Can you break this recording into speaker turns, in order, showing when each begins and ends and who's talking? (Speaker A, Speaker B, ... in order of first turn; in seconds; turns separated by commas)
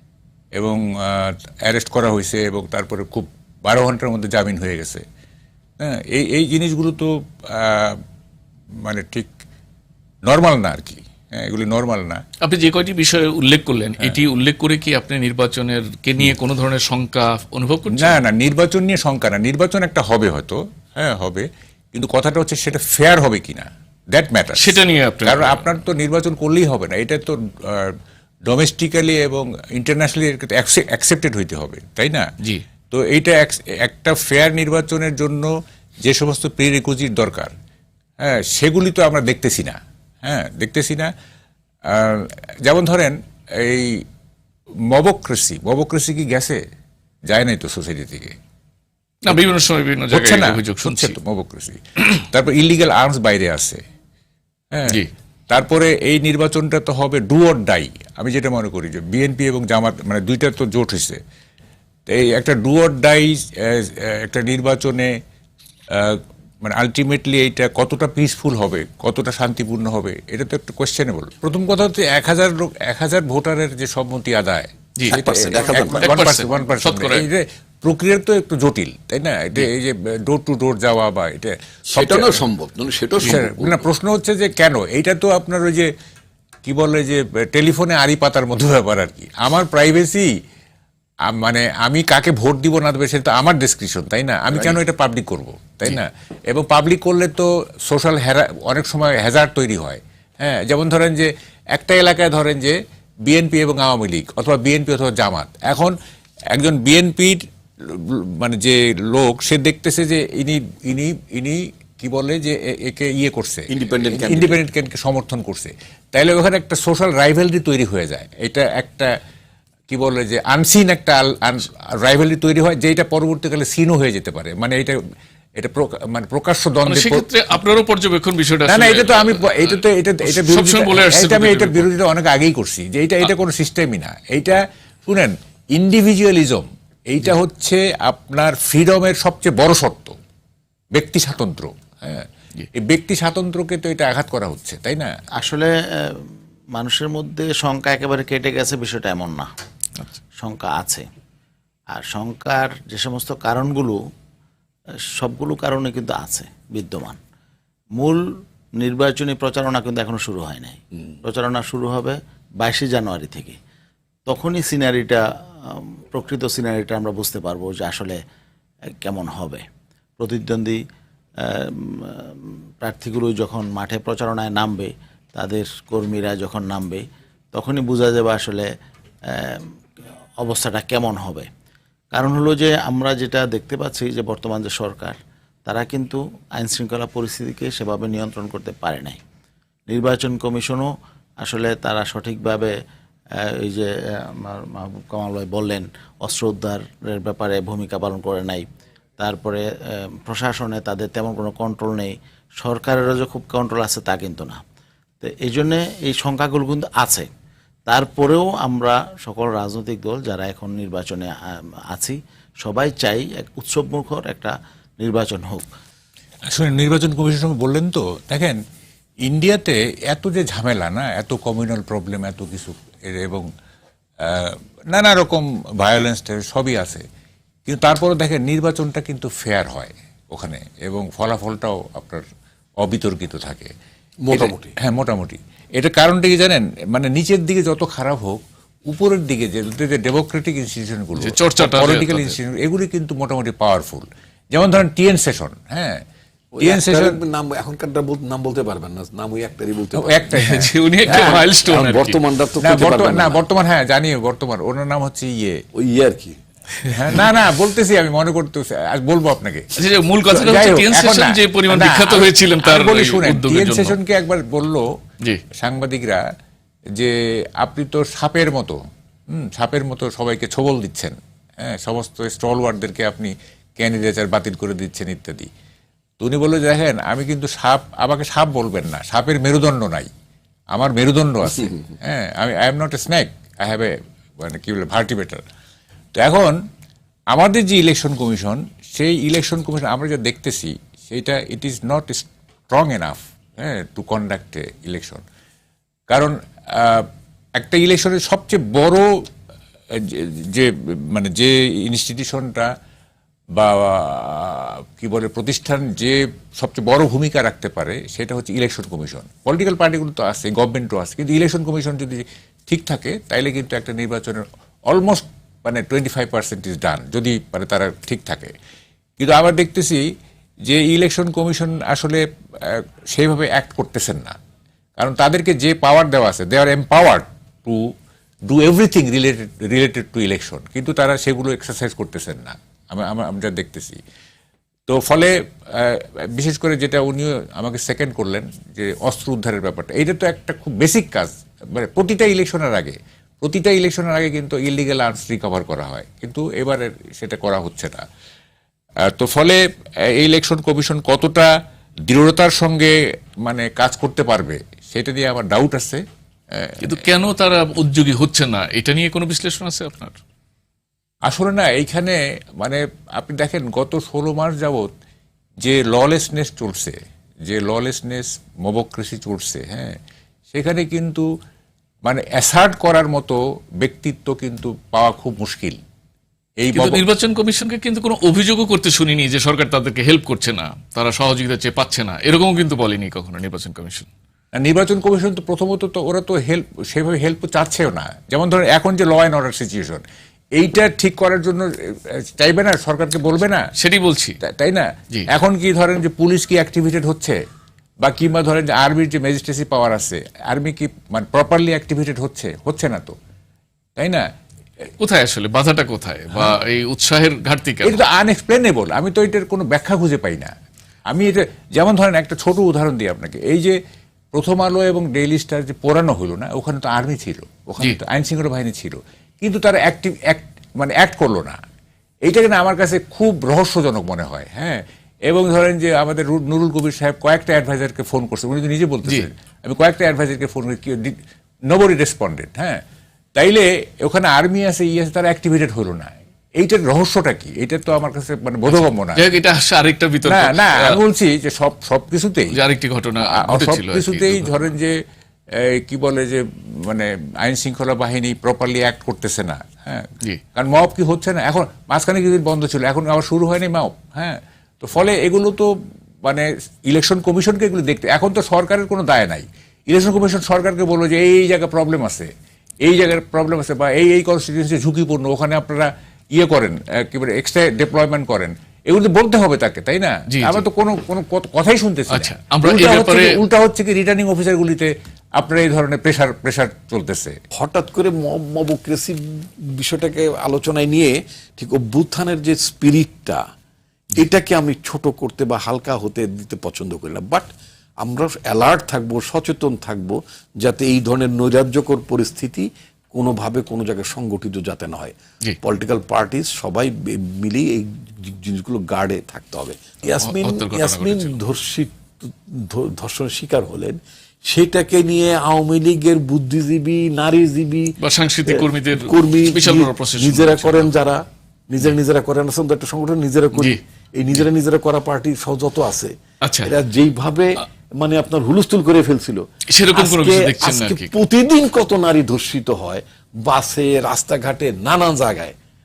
Speaker A: 0.6-5.0, Speaker A: 5.8-8.0, Speaker A: 8.8-9.3, Speaker A: 10.2-12.2, Speaker B: 12.4-18.2, Speaker A: 17.9-32.3, Speaker B: 24.6-25.7, Speaker A: 32.9-37.5, Speaker A: 38.2-41.1, Speaker A: 41.9-44.0, Speaker A: 44.9-46.6, Speaker A: 47.3-48.4, Speaker B: 49.2-51.2, Speaker A: 50.1-53.8, Speaker A: 54.7-61.2, Speaker A: 62.1-65.1, Speaker A: 65.9-82.4, Speaker C: 75.1-76.2, Speaker B: 75.9-77.3, Speaker C: 81.9-83.9, Speaker A: 83.2-85.9, Speaker A: 86.6-90.3, Speaker A: 91.3-106.0, Speaker A: 106.5-119.1, Speaker C: 113.7-114.6, Speaker A: 119.9-125.0, Speaker A: 125.6-127.2, Speaker B: 126.8-131.9, Speaker A: 128.7-140.2, Speaker A: 140.9-145.1, Speaker D: 145.4-149.5, Speaker D: 150.4-151.1, Speaker D: 151.9-154.0, Speaker D: 155.1-157.2, Speaker D: 157.9-158.2, Speaker D: 158.8-163.6, Speaker D: 164.3-168.2, Speaker D: 169.0-169.6, Speaker D: 170.2-170.8, Speaker D: 171.4-178.7, Speaker D: 179.3-179.7, Speaker D: 180.4-181.5, Speaker D: 182.1-189.2, Speaker D: 189.9-190.9, Speaker D: 191.4-192.7, Speaker D: 193.4-198.6, Speaker D: 199.2-204.6, Speaker D: 205.2-207.3, Speaker D: 207.9-215.7, Speaker A: 216.5-218.6, Speaker A: 219.2-223.5, Speaker A: 224.2-227.0, Speaker A: 227.7-232.2, Speaker A: 232.8-233.7, Speaker C: 234.2-234.7, Speaker A: 234.3-246.0, Speaker B: 241.2-242.4, Speaker C: 246.5-250.3, Speaker A: 246.6-247.2, Speaker A: 249.9-251.4, Speaker B: 250.3-252.2, Speaker C: 251.0-253.4, Speaker A: 252.6-255.6, Speaker C: 255.7-256.4, Speaker A: 256.9-259.7, Speaker B: 259.7-264.0, Speaker A: 260.3-264.9, Speaker A: 265.5-266.2, Speaker A: 266.9-268.8, Speaker A: 269.3-275.5, Speaker A: 276.2-280.1, Speaker A: 280.7-285.4, Speaker A: 286.1-286.6, Speaker A: 287.3-295.2, Speaker A: 296.1-299.1, Speaker A: 299.9-302.7, Speaker A: 303.5-318.5, Speaker A: 319.2-320.0, Speaker A: 320.6-324.4, Speaker A: 325.0-327.9, Speaker A: 328.5-334.0, Speaker A: 334.9-348.0, Speaker A: 349.0-351.5, Speaker A: 352.1-352.9, Speaker A: 353.4-356.0, Speaker A: 356.5-356.9, Speaker B: 356.8-360.1, Speaker A: 361.2-364.9, Speaker A: 365.6-370.0, Speaker A: 370.5-371.3, Speaker A: 372.0-375.8, Speaker A: 376.6-377.0, Speaker B: 376.7-384.1, Speaker A: 384.5-390.0, Speaker A: 390.5-393.7, Speaker B: 393.8-394.4, Speaker A: 394.4-397.4, Speaker A: 398.0-403.1, Speaker A: 404.0-404.3, Speaker B: 405.0-408.0, Speaker A: 407.8-410.5, Speaker A: 411.1-413.8, Speaker A: 414.3-421.6, Speaker A: 422.2-431.2, Speaker A: 431.7-432.8, Speaker A: 433.4-439.2, Speaker B: 438.8-441.0, Speaker A: 440.2-442.6, Speaker B: 442.5-444.7, Speaker A: 443.2-445.0, Speaker A: 445.5-455.7, Speaker A: 456.2-462.3, Speaker A: 462.8-477.4, Speaker B: 470.3-470.6, Speaker B: 472.1-473.4, Speaker C: 477.5-483.4, Speaker C: 484.1-525.5, Speaker B: 500.2-501.3, Speaker B: 508.0-510.9, Speaker B: 513.5-513.8, Speaker B: 516.4-516.8, Speaker B: 519.7-521.1